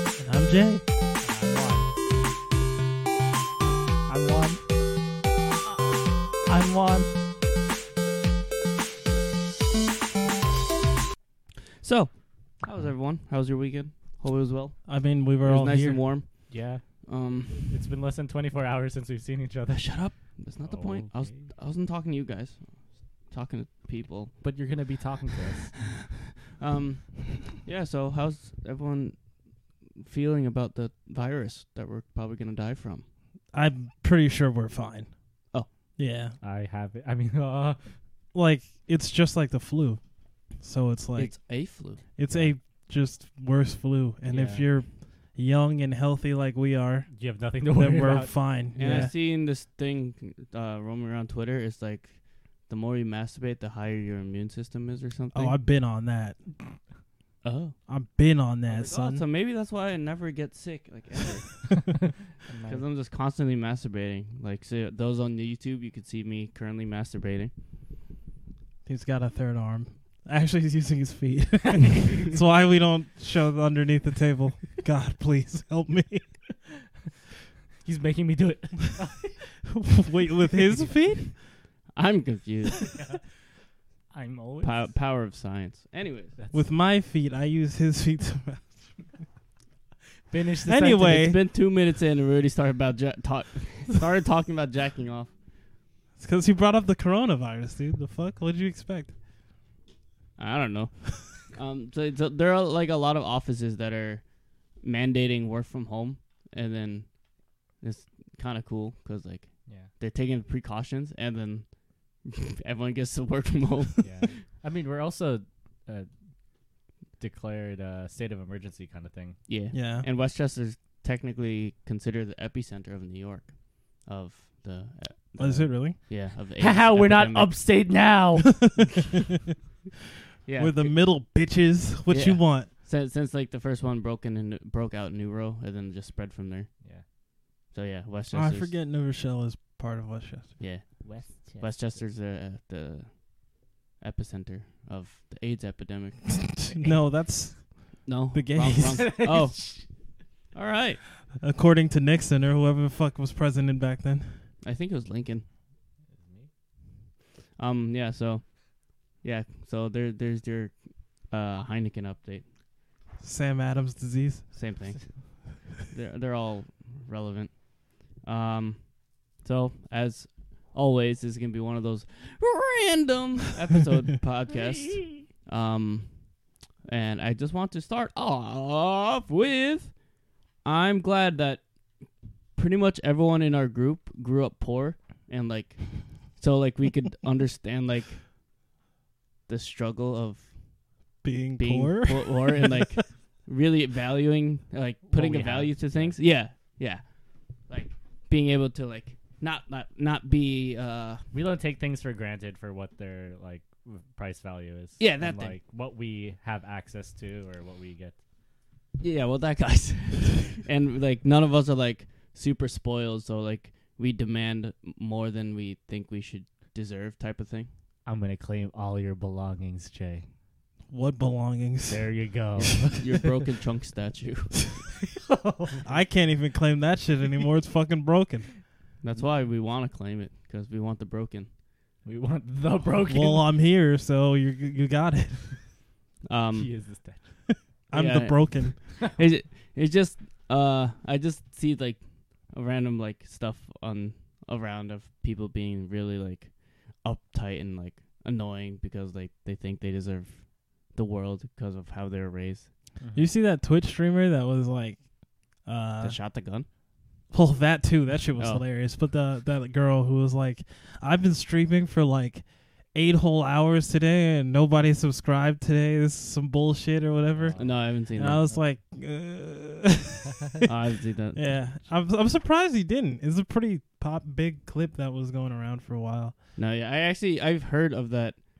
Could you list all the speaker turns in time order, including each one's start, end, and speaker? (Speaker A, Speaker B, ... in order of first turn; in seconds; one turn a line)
Speaker A: 0.2-0.8
Speaker B: 1.2-1.9
Speaker B: 4.1-4.6
Speaker B: 6.4-7.1
Speaker C: 11.8-17.8
Speaker A: 14.8-16.0
Speaker B: 16.5-21.5
Speaker C: 19.7-24.5
Speaker B: 24.4-25.7
Speaker C: 26.6-29.3
Speaker C: 30.0-33.0
Speaker A: 33.5-35.3
Speaker A: 36.0-36.4
Speaker B: 36.4-37.9
Speaker A: 38.3-40.0
Speaker A: 40.6-41.4
Speaker C: 41.2-42.0
Speaker A: 42.1-49.1
Speaker B: 44.3-44.7
Speaker B: 47.1-49.1
Speaker C: 48.7-55.6
Speaker A: 55.3-56.8
Speaker C: 57.4-57.8
Speaker A: 57.9-59.2
Speaker C: 58.7-62.0
Speaker B: 62.4-62.8
Speaker C: 62.7-67.5
Speaker A: 68.8-76.5
Speaker B: 77.8-79.5
Speaker A: 79.7-81.4
Speaker C: 81.9-83.0
Speaker B: 82.8-83.2
Speaker B: 84.1-84.9
Speaker C: 84.6-86.3
Speaker B: 86.4-86.7
Speaker A: 86.5-89.1
Speaker B: 90.3-91.3
Speaker A: 90.7-91.4
Speaker C: 91.0-95.3
Speaker A: 96.2-99.1
Speaker C: 100.4-104.2
Speaker C: 104.8-107.2
Speaker C: 107.8-114.4
Speaker B: 109.7-109.9
Speaker B: 114.0-116.1
Speaker B: 117.2-119.4
Speaker C: 119.5-127.7
Speaker A: 119.7-120.0
Speaker A: 125.4-126.0
Speaker B: 126.6-128.7
Speaker C: 130.4-131.0
Speaker A: 130.6-132.7
Speaker C: 132.1-136.7
Speaker C: 137.7-138.7
Speaker A: 138.3-140.6
Speaker C: 140.6-146.7
Speaker B: 141.0-142.0
Speaker A: 146.6-149.2
Speaker C: 148.1-150.0
Speaker B: 148.8-149.9
Speaker C: 150.5-151.0
Speaker A: 151.3-154.4
Speaker C: 154.6-155.4
Speaker B: 156.1-156.5
Speaker C: 157.6-162.4
Speaker A: 163.2-164.5
Speaker C: 164.5-167.7
Speaker C: 168.2-176.2
Speaker C: 176.9-180.0
Speaker C: 180.6-181.6
Speaker C: 182.6-188.2
Speaker C: 189.5-190.5
Speaker A: 191.2-192.8
Speaker C: 191.6-197.0
Speaker B: 195.1-196.2
Speaker C: 197.7-201.2
Speaker B: 201.3-208.2
Speaker C: 205.0-205.6
Speaker C: 209.0-217.7
Speaker B: 218.1-220.2
Speaker A: 220.9-222.9
Speaker B: 221.9-223.0
Speaker C: 222.9-224.8
Speaker B: 225.2-225.8
Speaker A: 225.8-228.6
Speaker C: 229.0-231.5
Speaker B: 232.0-233.5
Speaker A: 233.1-235.6
Speaker C: 236.2-236.7
Speaker B: 236.5-237.3
Speaker A: 237.9-238.8
Speaker C: 237.9-252.7
Speaker B: 253.0-253.3
Speaker A: 253.1-255.1
Speaker A: 255.6-256.2
Speaker C: 256.0-256.7
Speaker A: 257.3-270.7
Speaker C: 258.4-258.6
Speaker B: 267.3-267.8
Speaker C: 267.6-268.4
Speaker C: 270.6-271.5
Speaker A: 271.3-276.4
Speaker C: 276.6-278.4